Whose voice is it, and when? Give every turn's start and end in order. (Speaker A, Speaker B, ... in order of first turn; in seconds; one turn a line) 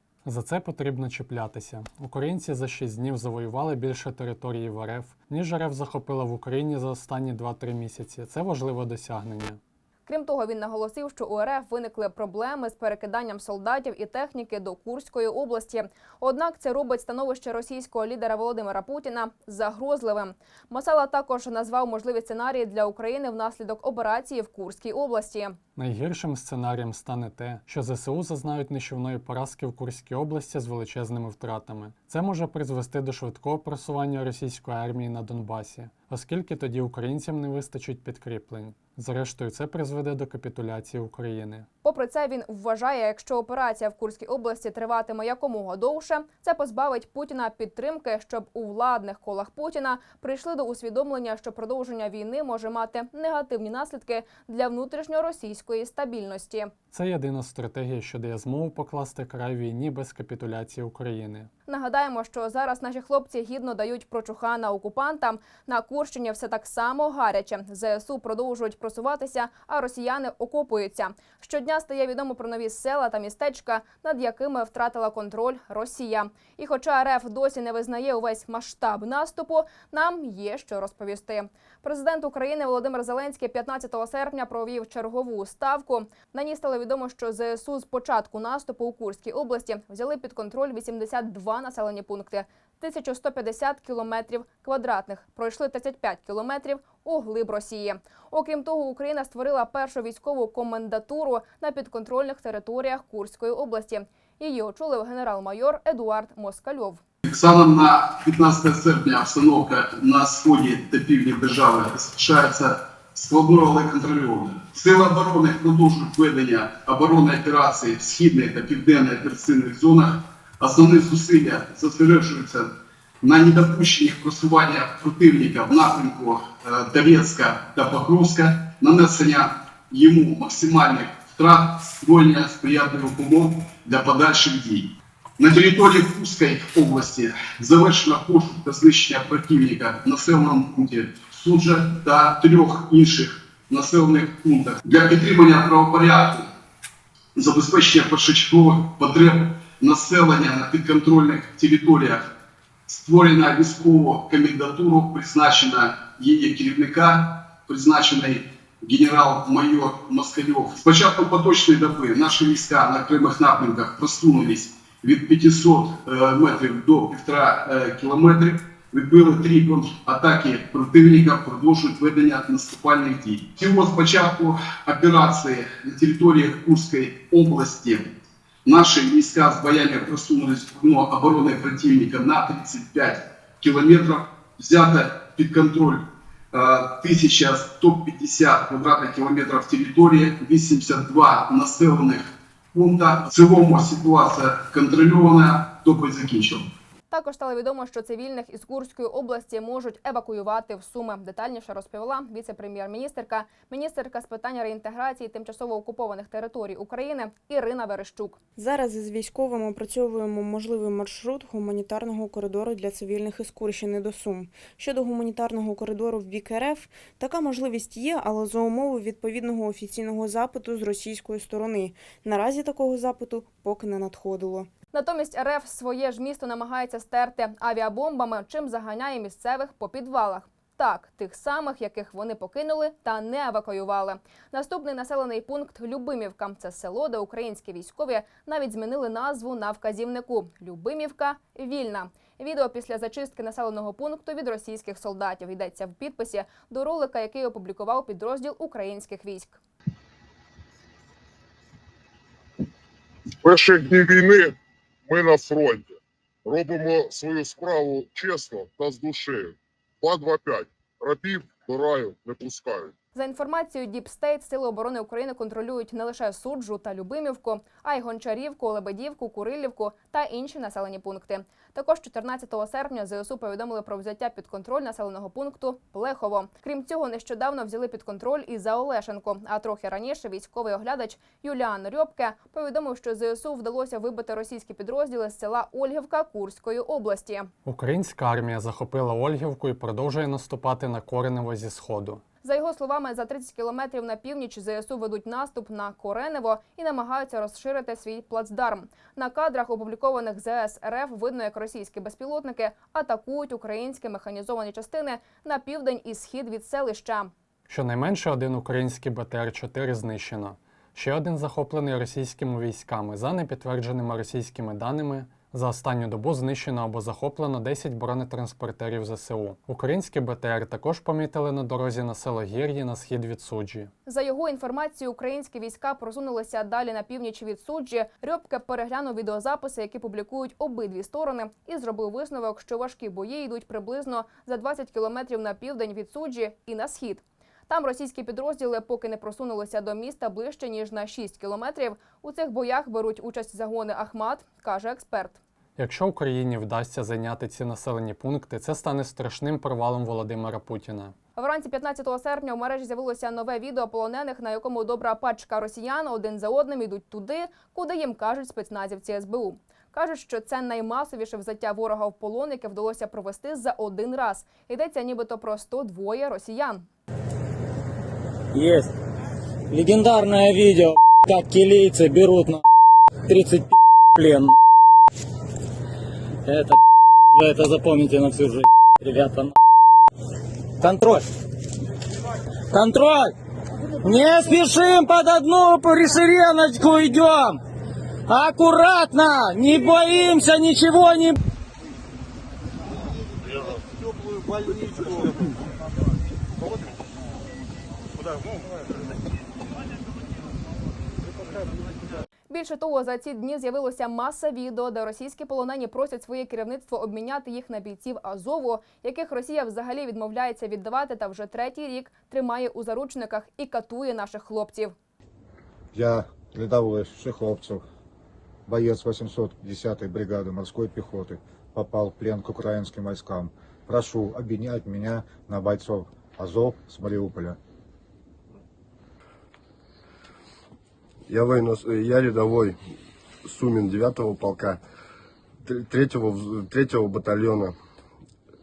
Speaker A: 0.2-9.6
Speaker B: 10.1-25.6
Speaker A: 25.8-41.6
Speaker B: 41.8-56.7
Speaker A: 56.9-61.5
Speaker B: 61.6-107.0
Speaker C: 107.2-122.7
Speaker C: 123.2-146.5
Speaker C: 147.3-152.2
Speaker C: 152.9-178.1
Speaker C: 178.7-196.7
Speaker B: 197.1-208.4
Speaker D: 208.6-224.7
Speaker B: 224.9-249.6
Speaker E: 253.4-254.5
Speaker E: 255.1-255.9
Speaker E: 256.4-262.9
Speaker B: 263.1-287.5
Speaker A: 287.6-292.2
Speaker B: 292.4-307.3
Speaker A: 307.7-323.9
Speaker B: 324.1-345.4
Speaker A: 345.8-351.1
Speaker B: 351.4-366.9
Speaker F: 368.6-368.9
Speaker F: 369.7-372.6
Speaker F: 373.3-374.5
Speaker F: 376.5-376.8
Speaker F: 377.3-379.5
Speaker F: 380.8-381.2
Speaker F: 382.7-383.3
Speaker F: 384.0-387.6
Speaker F: 388.3-391.4
Speaker B: 402.5-414.9
Speaker G: 415.9-417.8
Speaker G: 418.7-427.6
Speaker H: 431.3-434.8
Speaker H: 435.6-437.8